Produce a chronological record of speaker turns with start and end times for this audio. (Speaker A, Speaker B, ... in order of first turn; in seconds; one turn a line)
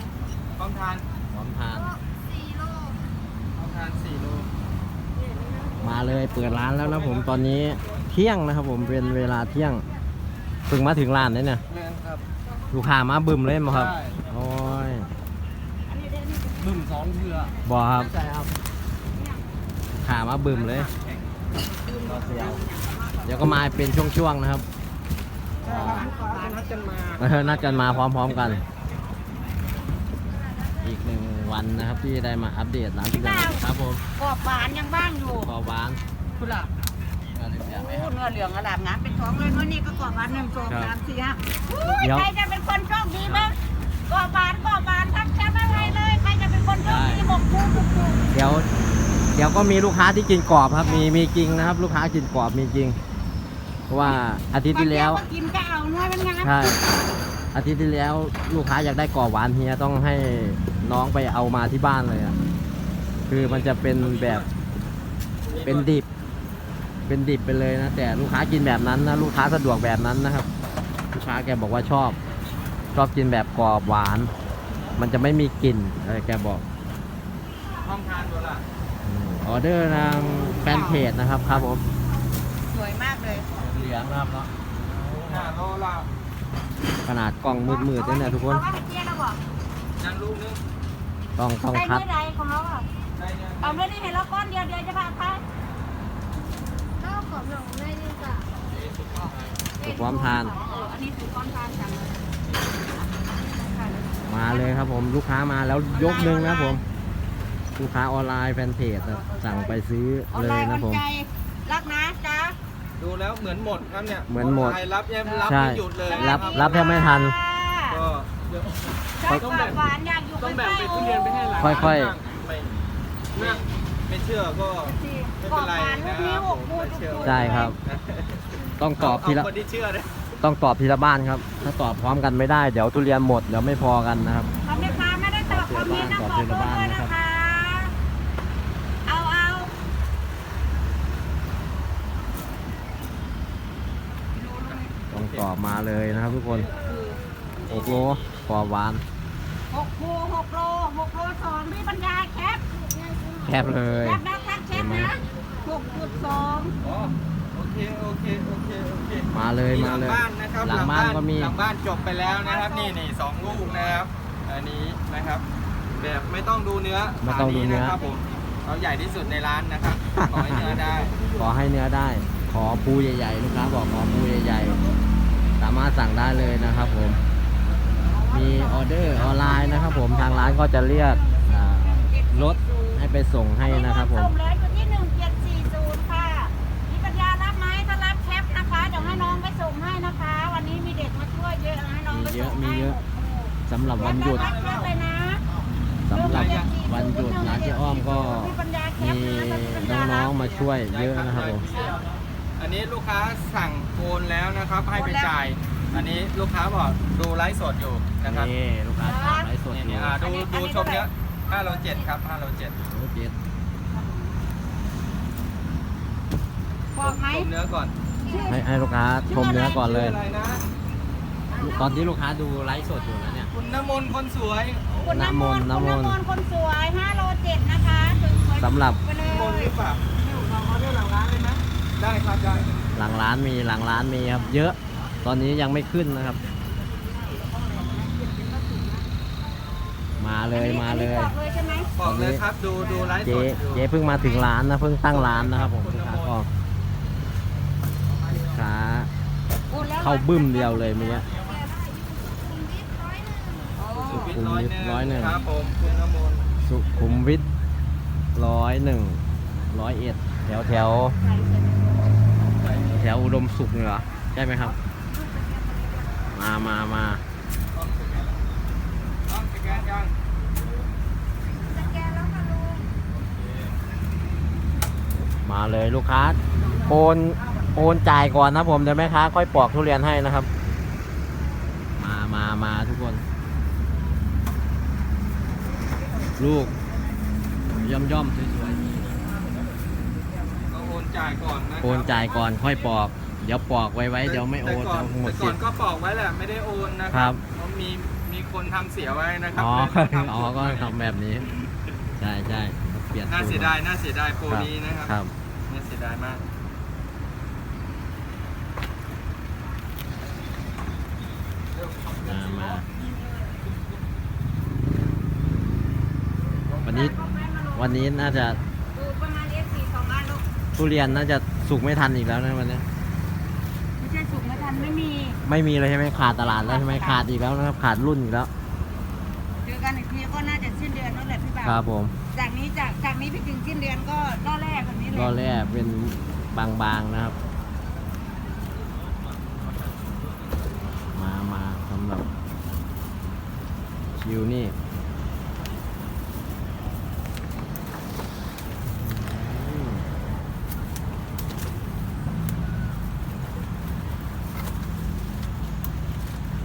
Speaker A: 0.6-1.1
Speaker B: 1.3-2.0
Speaker A: 3.5-4.5
Speaker B: 5.8-9.9
Speaker A: 6.7-8.0
Speaker B: 10.7-11.7
Speaker A: 11.7-12.2
Speaker B: 12.7-15.1
Speaker A: 13.7-14.2
Speaker C: 15.9-16.9
Speaker A: 16.6-17.5
Speaker B: 17.6-18.5
Speaker B: 20.0-20.9
Speaker A: 20.4-21.3
Speaker C: 21.8-23.6
Speaker A: 22.0-22.6
Speaker B: 22.3-22.6
Speaker B: 23.2-24.6
Speaker C: 25.6-26.7
Speaker A: 25.6-28.6
Speaker B: 25.7-26.0
Speaker B: 27.2-28.6
Speaker B: 30.8-34.0
Speaker C: 33.1-33.6
Speaker C: 34.2-35.5
Speaker B: 35.3-36.0
Speaker C: 36.4-36.7
Speaker B: 37.3-38.1
Speaker C: 37.6-43.6
Speaker B: 40.7-40.9
Speaker B: 42.0-42.3
Speaker B: 43.2-43.5
Speaker C: 44.1-48.2
Speaker B: 45.7-46.0
Speaker B: 46.8-47.3
Speaker B: 48.3-48.7
Speaker B: 49.3-53.0
Speaker C: 50.8-51.1
Speaker B: 53.9-55.2
Speaker C: 54.0-56.8
Speaker B: 56.4-56.8
Speaker B: 57.5-62.4
Speaker B: 63.3-64.5
Speaker A: 63.3-64.5
Speaker A: 65.5-65.9
Speaker B: 65.6-66.1
Speaker B: 67.1-70.5
Speaker B: 71.1-72.2
Speaker B: 72.9-74.3
Speaker B: 75.0-76.6
Speaker A: 77.8-78.6
Speaker B: 79.0-81.8
Speaker C: 80.6-81.1
Speaker C: 82.6-83.5
Speaker B: 83.6-84.5
Speaker B: 85.1-85.4
Speaker A: 85.2-86.1
Speaker B: 87.1-88.6
Speaker C: 87.6-89.4
Speaker A: 90.0-90.6
Speaker B: 91.4-92.0
Speaker C: 91.7-92.9
Speaker A: 93.2-93.8
Speaker C: 93.6-95.4
Speaker D: 97.6-98.2
Speaker A: 98.5-99.6
Speaker D: 99.8-100.8
Speaker B: 99.8-100.6
Speaker C: 100.2-102.3
Speaker B: 104.3-106.8
Speaker C: 105.9-106.8
Speaker B: 107.8-111.0
Speaker C: 110.3-112.6
Speaker A: 113.0-117.1
Speaker B: 114.3-114.8
Speaker B: 115.5-117.4
Speaker C: 116.0-118.0
Speaker A: 117.9-118.3
Speaker C: 119.2-121.8
Speaker B: 119.3-119.6
Speaker A: 119.5-119.8
Speaker A: 120.4-122.7
Speaker B: 121.6-122.2
Speaker A: 123.3-130.2
Speaker C: 124.8-127.7
Speaker B: 127.2-127.8
Speaker B: 128.8-129.5
Speaker B: 130.4-134.5
Speaker C: 134.7-137.9
Speaker B: 135.5-137.2
Speaker C: 139.1-139.7
Speaker C: 144.3-144.9
Speaker A: 144.7-146.8
Speaker B: 145.1-146.7
Speaker C: 146.7-147.2
Speaker A: 147.6-148.6
Speaker B: 147.7-149.0
Speaker C: 149.7-152.6
Speaker B: 153.4-155.2
Speaker C: 153.9-156.8
Speaker A: 156.8-165.4
Speaker B: 159.3-161.6
Speaker C: 162.1-163.0
Speaker B: 163.7-164.0
Speaker A: 166.0-171.2
Speaker B: 167.2-168.0
Speaker B: 170.1-170.8
Speaker B: 171.4-174.8
Speaker B: 175.6-177.2
Speaker C: 178.1-183.1
Speaker B: 178.3-184.3
Speaker C: 183.6-195.4
Speaker B: 189.0-189.4
Speaker B: 192.1-193.0
Speaker B: 193.7-194.5
Speaker A: 194.0-194.9
Speaker B: 196.1-201.7
Speaker C: 196.1-200.7
Speaker A: 196.3-196.7
Speaker A: 200.8-208.5
Speaker D: 201.7-202.0
Speaker C: 204.9-205.3
Speaker B: 208.2-210.2
Speaker C: 209.0-209.5
Speaker A: 209.7-212.8
Speaker C: 210.2-211.1
Speaker B: 212.9-213.3
Speaker C: 216.9-217.5
Speaker A: 217.0-217.9
Speaker C: 218.2-218.8
Speaker B: 218.5-220.2
Speaker C: 219.3-219.7
Speaker A: 219.3-220.7
Speaker C: 221.5-222.0
Speaker B: 221.6-223.5
Speaker A: 223.5-224.9
Speaker B: 224.9-226.2
Speaker C: 224.9-231.6
Speaker B: 228.6-229.0
Speaker A: 229.2-230.1
Speaker A: 232.0-232.7
Speaker B: 232.9-236.4
Speaker C: 237.3-239.0
Speaker B: 240.2-241.4
Speaker C: 240.5-241.9
Speaker A: 241.9-243.9
Speaker B: 242.0-242.4
Speaker B: 243.2-246.5
Speaker C: 244.1-244.5
Speaker A: 245.1-246.4
Speaker B: 248.3-249.1
Speaker C: 249.7-251.3
Speaker B: 249.9-251.3
Speaker C: 253.7-254.4
Speaker A: 253.9-256.5
Speaker B: 254.1-255.4
Speaker B: 256.6-257.5
Speaker B: 258.4-261.2
Speaker C: 260.6-262.0
Speaker A: 262.5-263.1
Speaker B: 262.9-264.8
Speaker C: 264.6-266.3
Speaker B: 266.3-267.2
Speaker A: 267.7-268.4
Speaker A: 269.3-270.1
Speaker C: 271.7-272.9
Speaker A: 273.1-273.8
Speaker B: 275.4-280.5
Speaker B: 282.0-283.2
Speaker B: 286.4-286.7
Speaker B: 287.7-289.2
Speaker A: 290.7-292.3
Speaker B: 291.8-295.6
Speaker A: 294.2-301.7
Speaker B: 297.1-297.4
Speaker B: 299.6-301.5
Speaker B: 302.2-303.7
Speaker A: 303.3-306.4
Speaker B: 304.5-305.3
Speaker A: 311.8-312.8
Speaker B: 312.2-312.9
Speaker C: 316.8-318.3
Speaker B: 316.8-317.2
Speaker B: 317.8-318.6
Speaker C: 318.9-320.4
Speaker B: 320.8-322.9
Speaker C: 324.0-325.4
Speaker B: 325.4-328.5
Speaker C: 326.4-327.2
Speaker C: 329.6-331.8
Speaker B: 331.6-332.1
Speaker C: 332.3-335.3
Speaker B: 335.1-337.4
Speaker B: 341.1-342.2
Speaker B: 344.2-344.8
Speaker B: 349.0-350.1